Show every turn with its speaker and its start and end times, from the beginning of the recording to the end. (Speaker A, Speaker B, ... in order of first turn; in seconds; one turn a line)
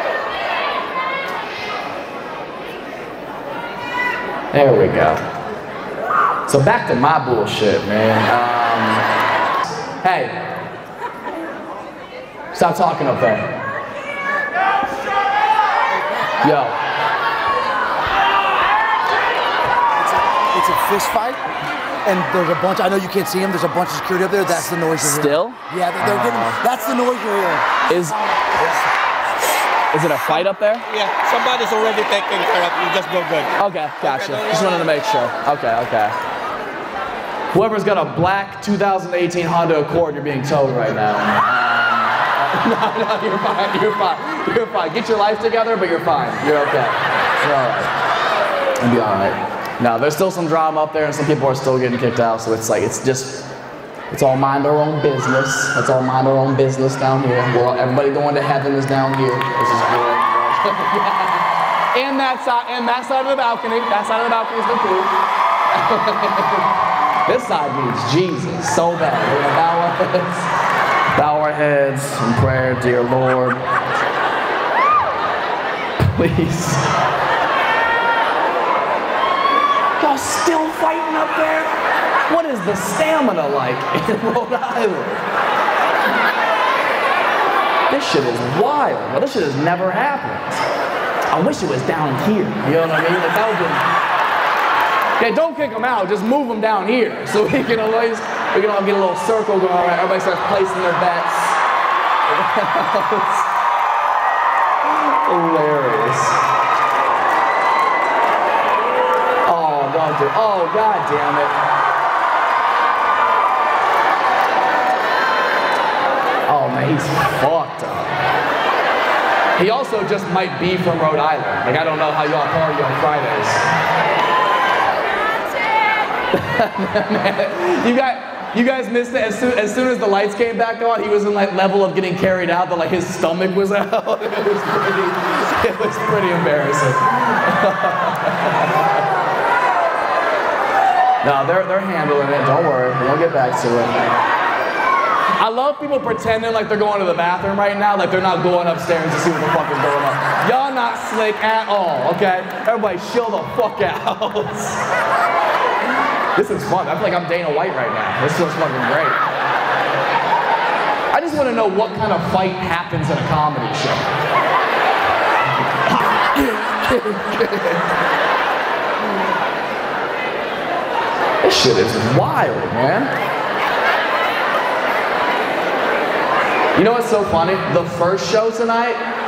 Speaker A: 4.5-5.2
Speaker A: 6.5-9.0
Speaker A: 10.0-10.4
Speaker A: 12.5-13.5
Speaker A: 16.4-16.8
Speaker B: 20.0-21.5
Speaker B: 22.0-27.8
Speaker A: 25.0-26.6
Speaker A: 27.9-28.2
Speaker B: 28.5-28.9
Speaker A: 29.9-30.9
Speaker C: 30.3-34.7
Speaker A: 33.6-36.2
Speaker A: 37.5-47.9
Speaker A: 48.8-53.5
Speaker A: 54.1-65.1
Speaker A: 65.7-66.7
Speaker A: 67.3-70.5
Speaker A: 71.2-73.6
Speaker A: 76.0-76.9
Speaker A: 80.0-81.7
Speaker A: 82.3-85.2
Speaker A: 87.9-90.6
Speaker A: 91.3-93.8
Speaker A: 95.2-101.6
Speaker A: 102.3-103.5
Speaker A: 104.8-106.4
Speaker A: 109.5-111.5
Speaker A: 116.5-118.2
Speaker A: 119.6-123.6
Speaker A: 126.3-139.0
Speaker A: 141.2-144.1
Speaker A: 145.4-154.8
Speaker A: 156.4-159.2
Speaker A: 161.1-164.1
Speaker A: 165.9-167.8
Speaker A: 171.4-173.1
Speaker A: 176.8-179.0